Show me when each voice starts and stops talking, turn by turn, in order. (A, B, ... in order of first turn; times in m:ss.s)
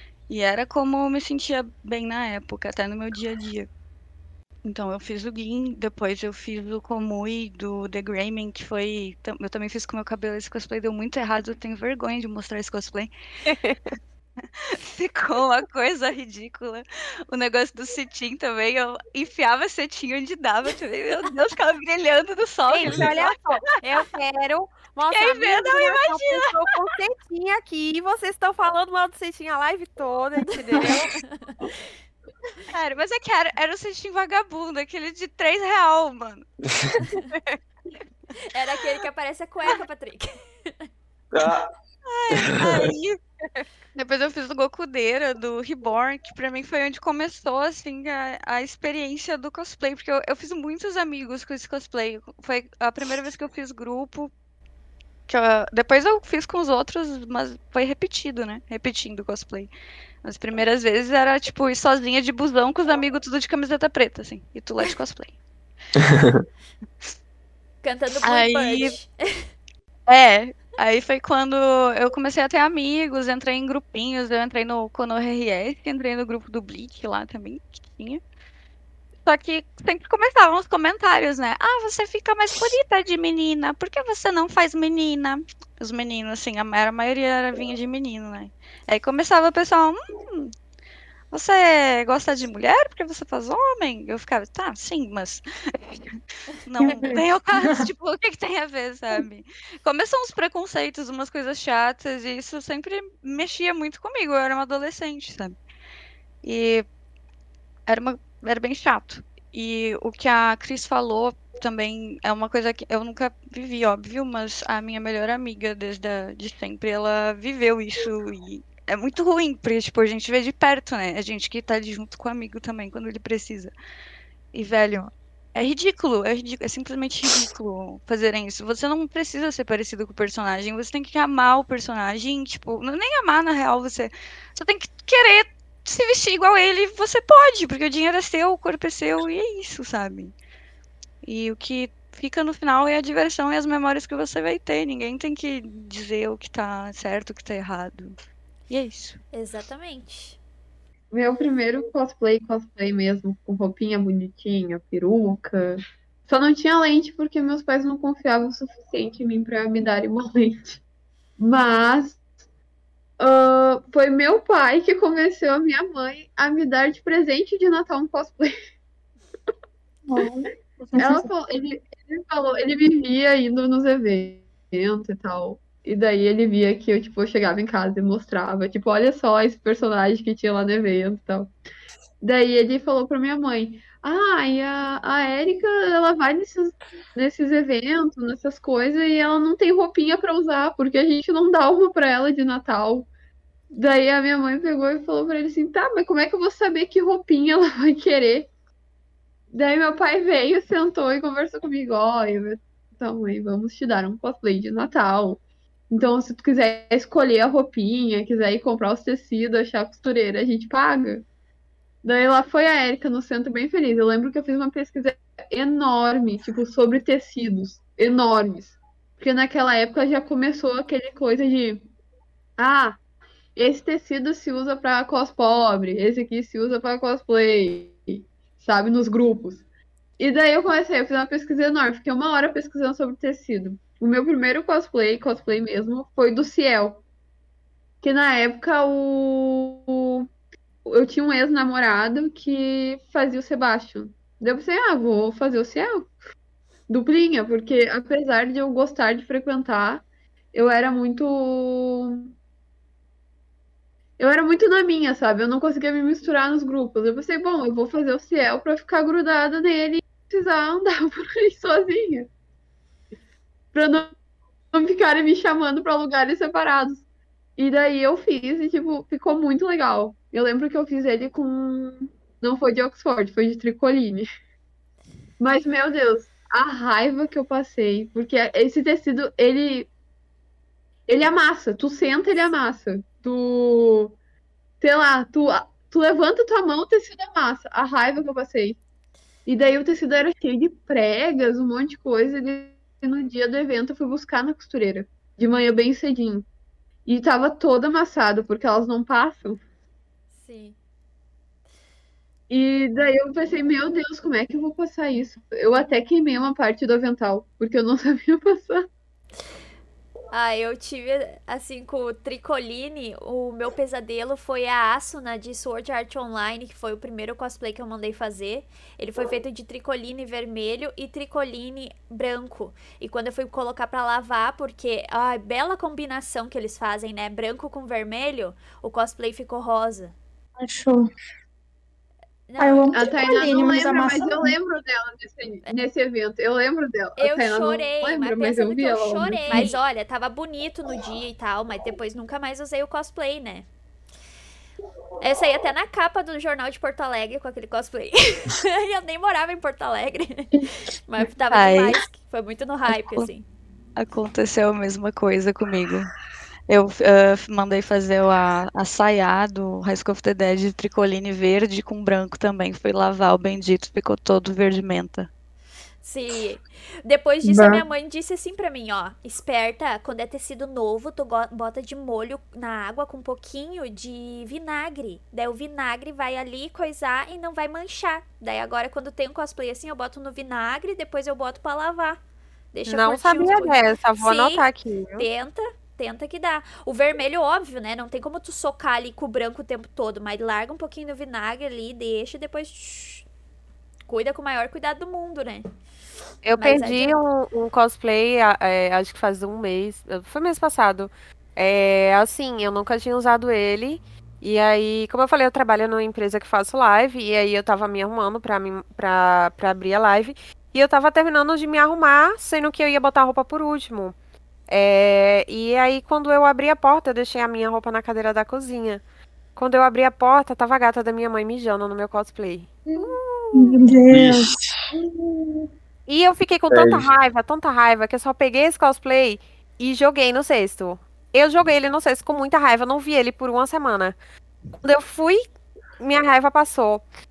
0:00.3-0:03.7 A
0:04.6-0:13.1 A
0:13.4-0:13.9 B
0:14.6-0:23.4 A
0:22.7-0:31.1 B
0:25.1-0:26.8 A
0:31.3-0:31.5 C
0:32.7-0:36.5 A
0:36.7-0:37.0 D
0:37.2-0:37.6 B
0:38.4-0:40.9 C
0:41.3-0:41.7 D
0:42.0-0:43.2 A
0:42.3-0:42.9 D
0:43.9-0:54.3 A
0:55.3-0:59.7 A
1:00.2-1:05.3 A
1:06.0-1:06.4 D
1:07.8-1:09.4 C
1:08.2-1:09.0 A
1:10.1-1:18.2 A
1:19.2-1:30.5 A
1:31.3-1:45.6 A
1:36.8-1:37.9 E
1:46.4-1:46.8 A
1:47.9-2:03.7 A
2:04.5-2:20.3 A
2:21.2-2:28.2 A
2:28.7-2:29.2 A
2:29.3-2:30.4 C
2:31.1-2:40.8 F
2:41.4-2:42.2 F
2:43.2-2:48.5 F
2:50.1-2:51.3 E
2:51.0-3:01.5 F
3:02.2-3:13.1 F
3:13.7-3:18.5 F
3:19.5-3:31.2 F
3:32.0-3:41.9 F
3:42.6-3:43.0 F
3:43.6-3:49.6 F
3:50.2-3:57.0 F
3:58.0-4:00.2 F
4:00.8-4:06.1 F
4:06.9-4:12.3 F
4:14.2-4:22.3 F
4:23.7-4:24.1 F
4:24.7-4:27.0 F
4:27.6-4:34.2 F
4:35.4-4:39.9 F
4:41.1-4:44.2 F
4:44.8-4:48.8 F
4:49.4-4:56.5 F
4:57.0-4:59.6 F
5:00.4-5:00.8 C
5:02.5-5:08.8 F
5:10.3-5:30.1 C
5:30.6-5:31.1 E
5:32.5-5:32.9 C
5:32.6-5:34.5 E
5:32.9-5:39.7 F
5:37.2-5:43.6 C
5:39.5-5:39.8 E
5:45.2-5:50.5 C
5:51.0-5:53.4 C
5:51.5-5:52.0 A
5:52.9-5:53.3 A
5:54.0-5:56.1 A
5:56.7-6:05.3 A
6:06.0-6:22.2 C
6:22.7-6:24.6 C
6:22.8-6:25.3 B
6:25.2-6:33.2 C
6:34.1-6:35.6 C
6:36.4-6:54.1 B
6:36.5-6:37.2 C
6:54.7-6:59.0 B
6:59.6-7:03.8 B
7:02.9-7:04.5 E
7:04.1-7:04.8 D
7:05.1-7:05.5 B
7:06.1-7:14.2 B
7:06.7-7:07.1 D
7:14.8-7:15.4 B
7:16.0-7:17.0 B